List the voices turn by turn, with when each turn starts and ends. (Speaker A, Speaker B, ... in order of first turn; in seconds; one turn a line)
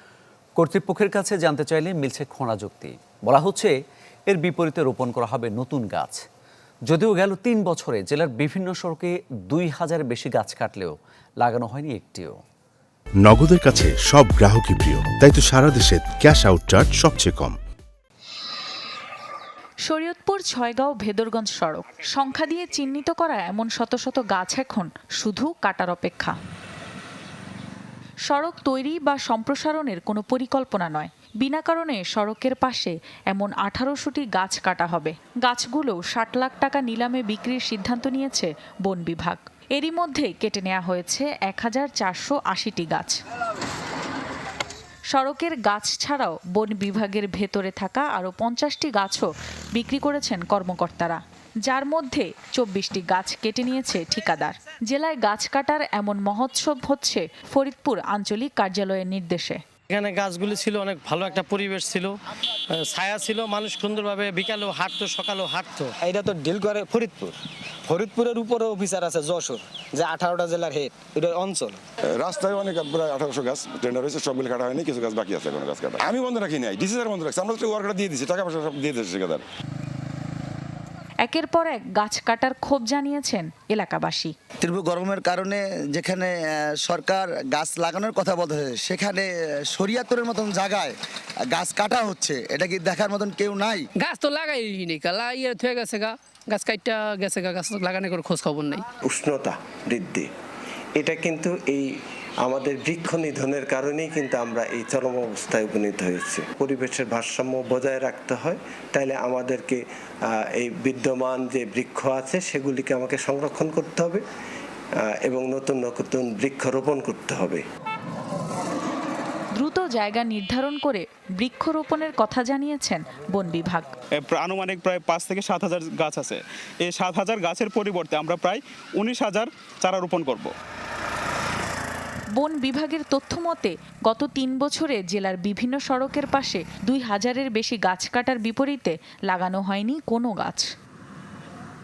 Speaker A: 0.6-3.7
Speaker A: 4.3-6.2
Speaker A: 6.9-12.4
Speaker B: 13.2-17.6
Speaker C: 19.9-26.4
Speaker C: 28.3-43.2
Speaker C: 45.1-59.6
Speaker D: 59.9-62.1
Speaker D: 62.7-65.9
Speaker E: 66.1-71.8
Speaker F: 72.2-79.4
Speaker C: 81.2-84.3
Speaker G: 84.6-93.8
Speaker H: 94.0-98.8
Speaker I: 99.0-100.3
Speaker I: 101.0-114.2
Speaker I: 115.0-117.7
Speaker C: 119.6-123.9
Speaker J: 124.2-130.5
Speaker C: 132.4-140.7